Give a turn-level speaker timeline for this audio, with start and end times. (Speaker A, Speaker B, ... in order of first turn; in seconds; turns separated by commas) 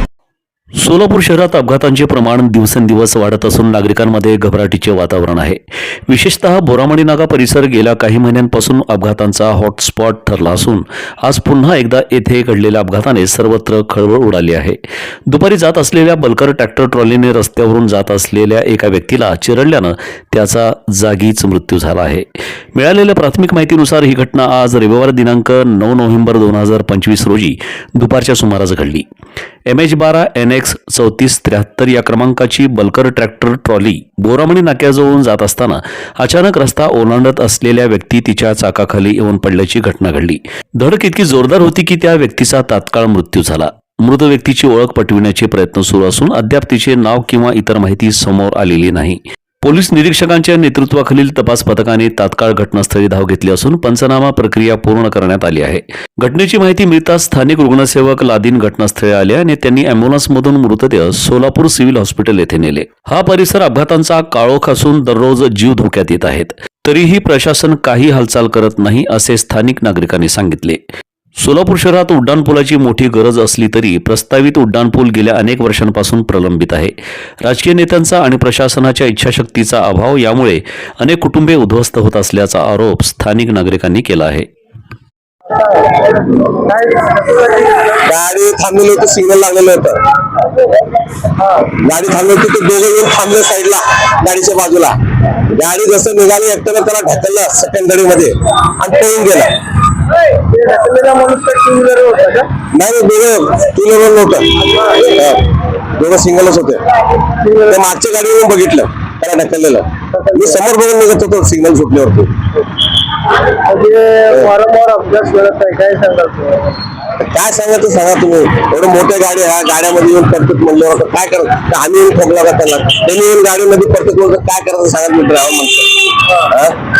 Speaker A: 0.8-29.1, Speaker A: 29.7-70.8, Speaker A: 71.4-84.5, Speaker B: 85.5-88.0, Speaker C: 88.0-90.0, Speaker B: 91.4-91.7, Speaker C: 91.8-94.9, Speaker C: 95.5-99.6, Speaker B: 100.1-102.5, Speaker C: 102.7-105.5, Speaker B: 104.6-105.2, Speaker C: 106.0-106.8, Speaker B: 107.3-107.8, Speaker C: 107.6-112.3, Speaker B: 110.1-110.5, Speaker B: 113.6-116.8, Speaker C: 117.2-126.8